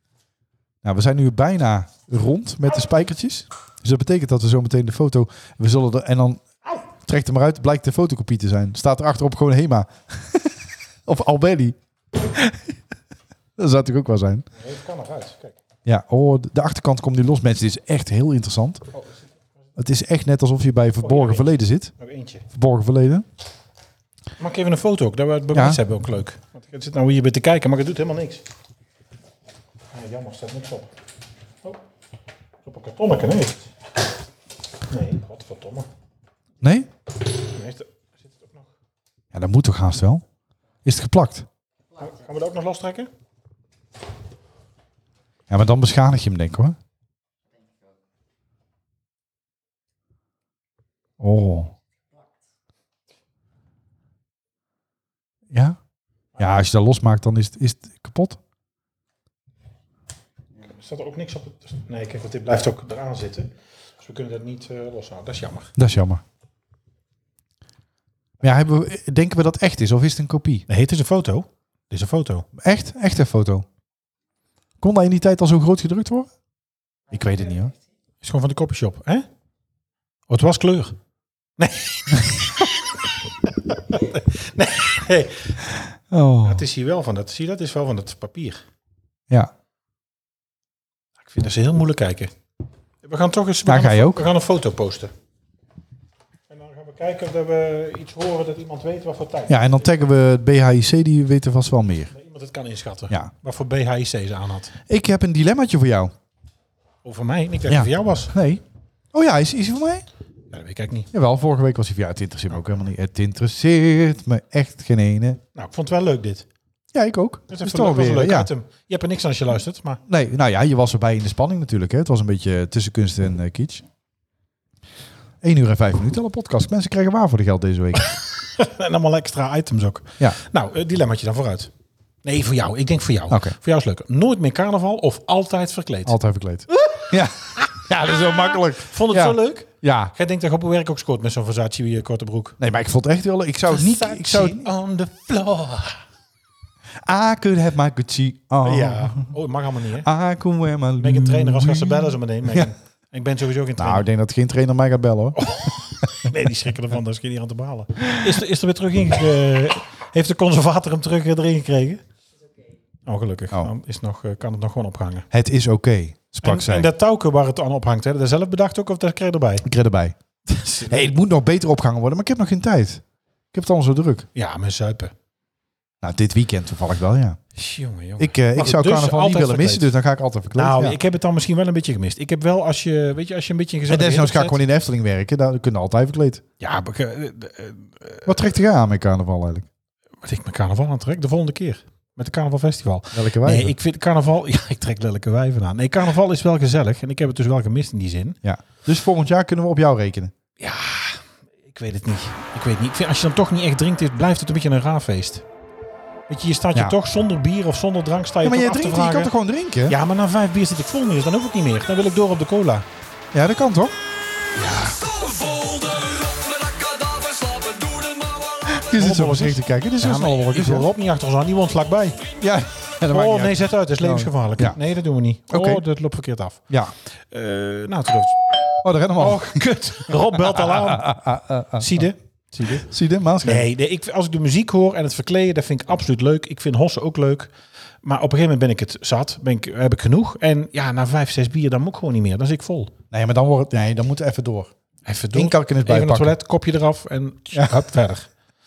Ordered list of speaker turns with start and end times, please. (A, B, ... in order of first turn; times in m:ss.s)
0:00.8-0:12.8 A
0:13.6-0:14.5 A
0:14.5-0:15.6 B
0:15.8-0:18.9 A
0:18.9-0:19.3 B
0:19.8-0:21.9 A
0:21.0-0:22.5 B
0:22.5-0:23.3 A
0:24.4-0:28.4 B
0:25.5-0:25.8 A
0:29.9-0:30.9 B
0:32.6-0:33.7 B
0:34.9-0:35.9 B
0:36.6-0:36.9 A
0:37.4-0:38.7 B
0:39.3-0:40.2 A
0:40.8-0:41.5 A
0:42.0-0:43.1 B
0:45.5-0:46.8 A
0:51.2-0:51.7 A
0:55.5-0:55.8 A
0:56.4-0:58.4 A
1:00.6-1:05.7 B
1:05.8-1:06.2 A
1:08.4-1:10.7 A
1:10.7-1:12.5 B
1:12.6-1:13.7 A
1:14.8-1:16.3 A
1:17.1-1:17.7 A
1:18.2-1:19.3 B
1:20.3-1:21.0 B
1:21.6-1:25.6 B
1:26.1-1:26.6 A
1:26.4-1:28.6 B
1:31.2-1:32.3 B
1:33.0-1:35.1 B
1:33.7-1:34.3 A
1:36.5-1:39.8 B
1:39.5-1:42.1 A
1:42.1-1:44.7 B
1:44.9-1:46.1 A
1:47.0-1:48.4 B
1:47.7-1:50.0 A
1:50.5-1:51.1 B
1:51.1-1:55.4 A
1:55.6-1:56.5 B
1:56.9-1:58.5 A
1:57.5-2:00.0 B
2:00.1-2:03.8 A
2:05.4-2:08.1 A
2:08.0-2:11.7 B
2:12.2-2:16.2 B
2:13.3-2:13.6 A
2:16.1-2:20.1 A
2:16.7-2:22.6 B
2:22.6-2:24.7 A
2:23.7-2:26.0 B
2:27.0-2:29.3 A
2:28.6-2:30.1 B
2:30.0-2:32.7 A
2:31.0-2:34.1 B
2:33.8-2:36.3 A
2:35.4-2:42.0 B
2:43.1-2:45.3 B
2:45.3-2:46.9 A
2:46.4-2:49.7 B
2:49.6-2:50.2 A
2:50.5-2:51.2 B
2:50.9-2:54.3 A
2:54.4-2:55.1 B
2:56.0-2:57.4 A
2:57.6-2:59.9 B
2:58.2-3:01.0 A
3:00.5-3:04.6 B
3:03.9-3:06.4 A
3:06.6-3:08.3 B
3:08.3-3:09.7 A
3:10.2-3:18.4 B
3:13.1-3:13.8 A
3:18.4-3:20.3 A
3:20.6-3:25.5 B
3:26.3-3:29.3 B
3:28.4-3:30.0 A
3:29.9-3:32.9 B
3:33.3-3:34.0 A
3:34.6-3:35.0 B
3:35.1-3:38.7 C
3:38.7-3:40.9 A
3:38.9-3:42.2 B
3:42.4-3:44.8 A
3:43.1-3:48.6 B
3:45.5-3:45.8 A
3:48.8-3:49.6 A
3:49.2-3:51.1 B
3:50.3-3:52.1 A
3:51.8-3:52.9 B
3:52.8-3:53.7 A
3:53.4-3:57.5 B
3:58.0-4:02.9 B
4:03.1-4:04.7 A
4:05.1-4:08.3 B
4:05.3-4:06.4 A
4:07.5-4:07.8 A